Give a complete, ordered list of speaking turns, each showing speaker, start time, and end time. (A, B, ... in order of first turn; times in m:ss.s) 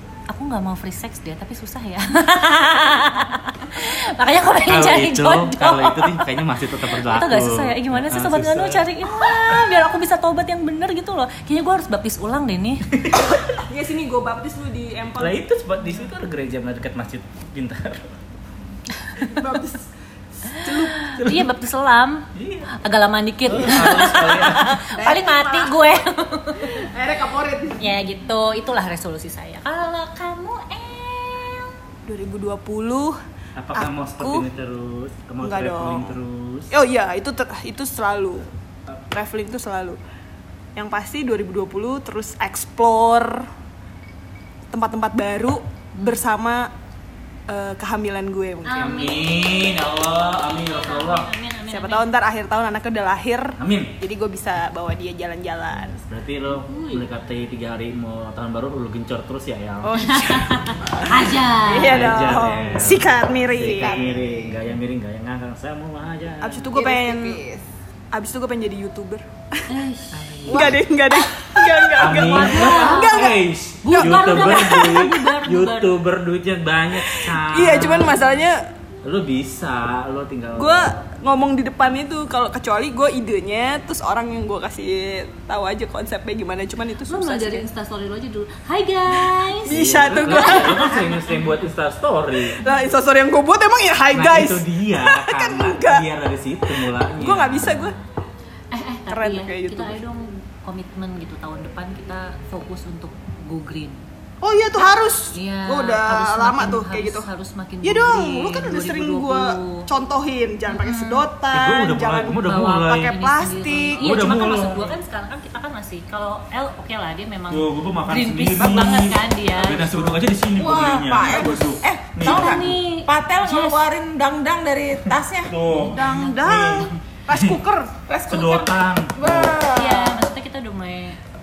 0:00.3-0:06.3 A
0:04.6-0:08.9 B
0:06.9-0:12.8 A
0:12.9-0:13.4 B
0:13.6-0:15.4 C
0:15.2-0:18.2 B
0:19.2-0:19.9 C
0:20.4-0:21.1 C
0:20.5-0:26.8 A
0:21.2-0:21.5 B
0:22.4-0:22.7 B
0:23.5-0:24.8 B
0:25.0-0:25.9 D
0:26.8-0:27.8 C
0:27.0-0:27.8 D
0:27.8-0:31.7 A
0:32.0-0:33.2 C
0:33.6-0:36.7 B
0:33.7-0:34.5 C
0:35.4-0:36.2 C
0:36.7-0:38.5 C
0:39.1-0:40.0 C
0:40.8-0:43.5 C
0:44.7-0:46.7 C
0:46.0-0:46.2 A
0:47.5-0:49.0 C
0:48.6-0:52.1 A
0:48.8-0:51.3 B
0:51.7-0:56.0 C
0:53.6-0:53.9 B
0:55.7-1:00.2 B
0:56.6-0:57.0 A
0:59.8-1:04.0 C
1:00.0-1:02.1 A
1:01.8-1:06.7 B
1:03.7-1:04.7 D
1:06.4-1:07.4 C
1:06.7-1:07.7 D
1:08.1-1:09.6 C
1:09.7-1:10.4 A
1:10.1-1:10.8 B
1:10.5-1:10.8 D
1:10.5-1:15.1 C
1:11.9-1:18.2 B
1:12.2-1:13.3 A
1:13.8-1:15.9 A
1:17.0-1:18.7 C
1:19.0-1:20.9 B
1:20.6-1:27.7 C
1:27.1-1:31.6 A
1:29.6-1:31.1 C
1:29.7-1:32.6 B
1:32.6-1:36.1 C
1:34.1-1:37.9 B
1:36.7-1:38.0 C
1:38.7-1:44.0 A
1:39.1-1:40.0 C
1:44.4-1:47.3 C
1:45.3-1:49.9 A
1:47.8-1:54.4 C
1:50.7-1:51.2 A
1:51.5-1:53.1 B
1:52.4-2:00.2 A
1:54.0-1:55.0 B
1:57.5-2:02.8 B
2:00.6-2:05.8 D
2:02.2-2:03.8 A
2:05.5-2:07.6 B
2:05.8-2:07.9 C
2:05.8-2:06.6 A
2:08.0-2:10.2 D
2:08.3-2:09.6 B
2:09.7-2:11.2 A